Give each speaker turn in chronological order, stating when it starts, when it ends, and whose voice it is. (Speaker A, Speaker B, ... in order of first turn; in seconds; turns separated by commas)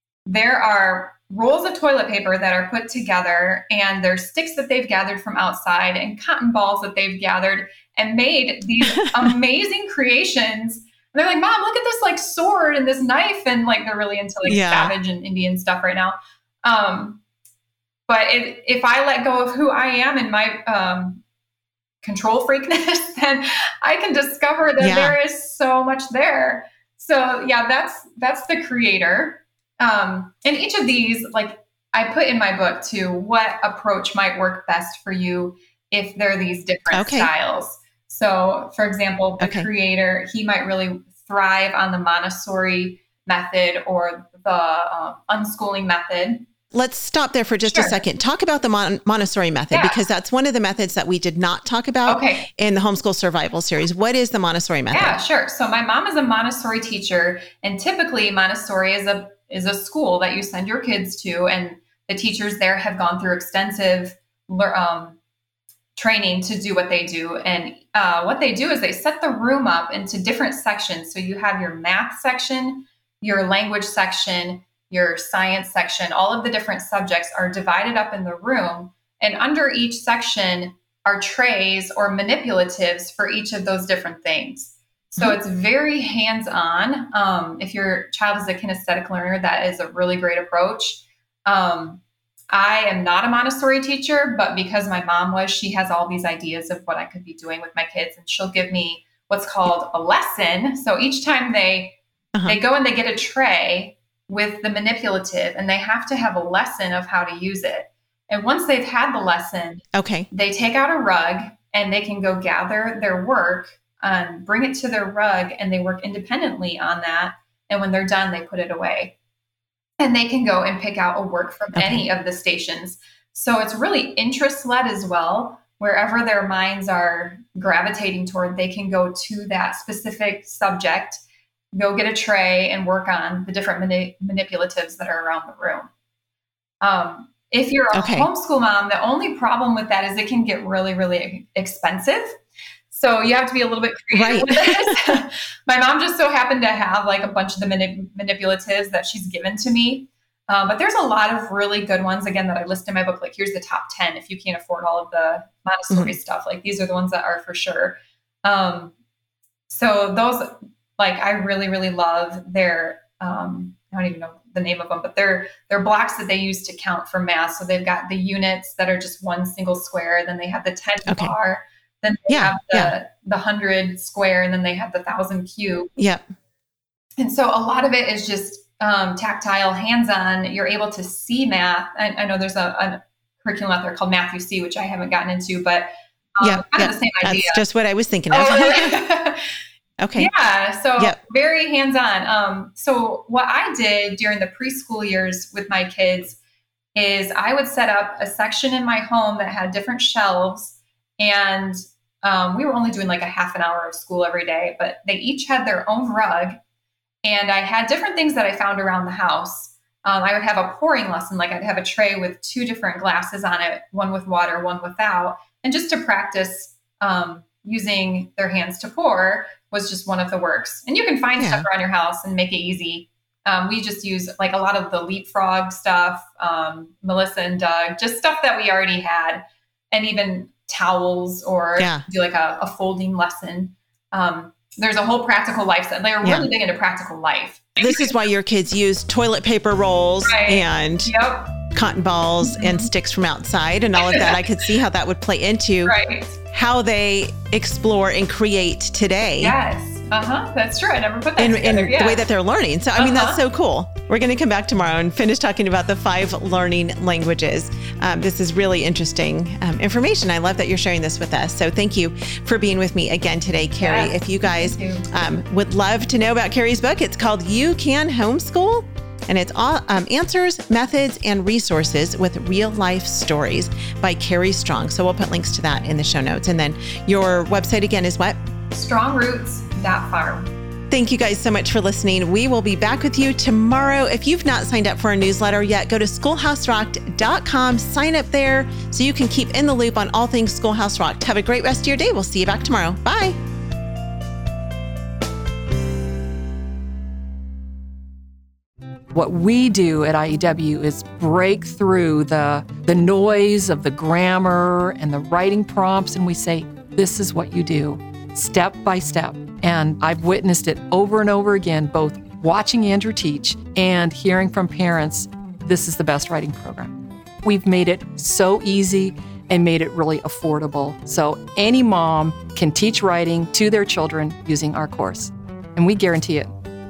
Speaker A: 0.2-17.2, Speaker B: 8.8-9.3, Speaker B: 14.4-14.9, Speaker A: 18.1-21.2, Speaker A: 22.0-46.5, Speaker B: 24.8-25.2, Speaker B: 36.9-37.3, Speaker B: 39.4-39.7, Speaker B: 46.7-55.2, Speaker A: 47.6-48.0, Speaker A: 49.7-50.0, Speaker A: 52.0-52.5, Speaker A: 54.9-65.2, Speaker A: 66.0-119.2, Speaker B: 102.3-102.6, Speaker B: 109.9-110.3, Speaker A: 120.0-131.2, Speaker B: 121.7-122.1, Speaker A: 131.7-135.9, Speaker A: 136.8-142.4, Speaker B: 137.9-138.3, Speaker A: 142.9-158.9, Speaker B: 144.1-145.1, Speaker B: 155.9-156.2, Speaker A: 159.7-175.9, Speaker B: 171.0-171.3, Speaker B: 172.3-172.9, Speaker B: 176.0-176.2, Speaker A: 177.2-187.6, Speaker B: 186.4-189.0, Speaker A: 188.3-189.5, Speaker B: 190.0-190.3, Speaker A: 190.2-196.4, Speaker A: 196.9-206.6, Speaker A: 207.2-229.4, Speaker B: 221.4-221.7, Speaker A: 229.9-238.1, Speaker B: 231.8-232.0, Speaker B: 236.2-236.5, Speaker B: 237.8-241.1, Speaker A: 240.2-241.6, Speaker B: 241.7-246.0, Speaker A: 242.4-242.9, Speaker A: 244.0-244.3, Speaker A: 245.8-246.4, Speaker B: 246.5-249.6, Speaker A: 249.4-252.2, Speaker B: 251.4-278.4, Speaker A: 252.9-253.4, Speaker A: 263.8-265.3, Speaker A: 278.7-280.5, Speaker B: 280.9-293.3, Speaker C: 299.1-326.5